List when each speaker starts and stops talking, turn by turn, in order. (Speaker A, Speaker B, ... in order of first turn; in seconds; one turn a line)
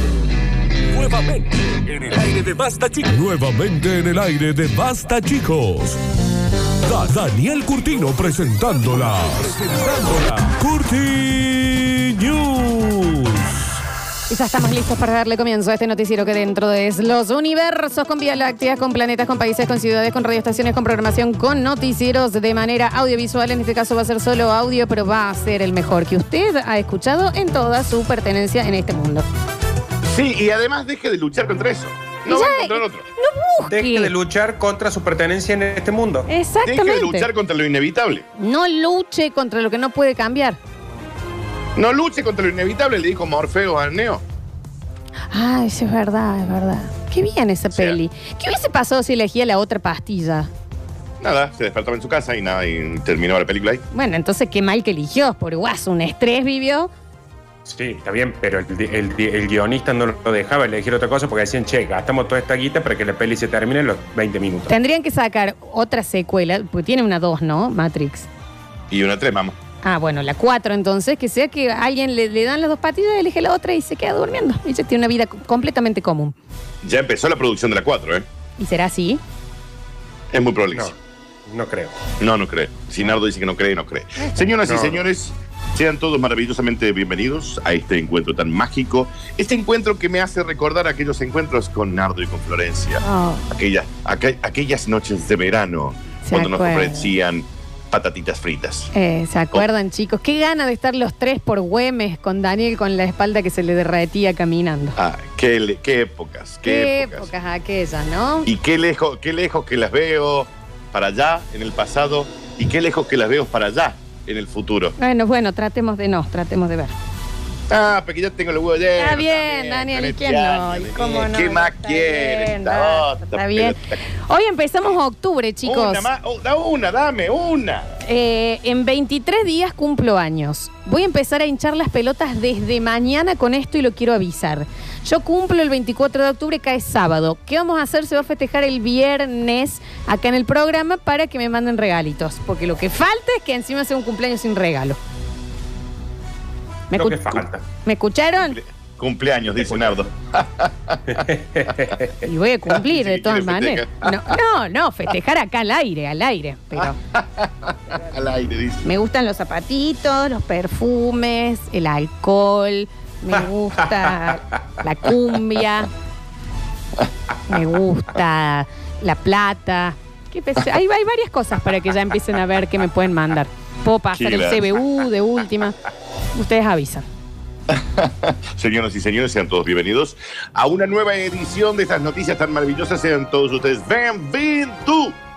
Speaker A: 0.9-6.0
Speaker A: 6.8-13.7
Speaker B: 14.3-29.3
Speaker C: 30.1-33.0
Speaker B: 32.3-34.1
Speaker D: 33.7-36.3
Speaker B: 36.3-37.3
Speaker C: 36.6-38.3
Speaker B: 38.4-40.6
Speaker C: 41.8-44.2
Speaker B: 45.3-50.5
Speaker C: 51.2-53.8
Speaker B: 53.9-56.9
Speaker D: 57.6-64.7
Speaker B: 64.7-68.3
Speaker C: 68.9-69.6
Speaker B: 69.8-76.3
Speaker C: 76.8-78.3
Speaker B: 78.6-79.2
Speaker C: 80.3-80.9
Speaker D: 81.5-81.9
Speaker C: 82.2-98.9
Speaker D: 84.7-85.0
Speaker B: 93.0-93.5
Speaker B: 96.2-97.1
Speaker B: 98.9-105.0
Speaker C: 105.0-107.3
Speaker B: 106.6-108.5
Speaker C: 108.5-115.0
Speaker B: 115.0-116.9
Speaker C: 117.7-124.0
Speaker B: 119.0-126.1
Speaker C: 125.6-127.9
Speaker B: 128.0-145.0
Speaker B: 146.9-148.6
Speaker D: 146.9-147.6
Speaker C: 148.4-151.2
Speaker D: 151.1-152.1
Speaker B: 152.2-157.0
Speaker C: 152.7-154.1
Speaker C: 157.1-158.8
Speaker B: 158.8-165.9
Speaker B: 167.5-175.8
Speaker C: 174.1-174.8
Speaker B: 176.3-177.1
Speaker C: 177.7-185.2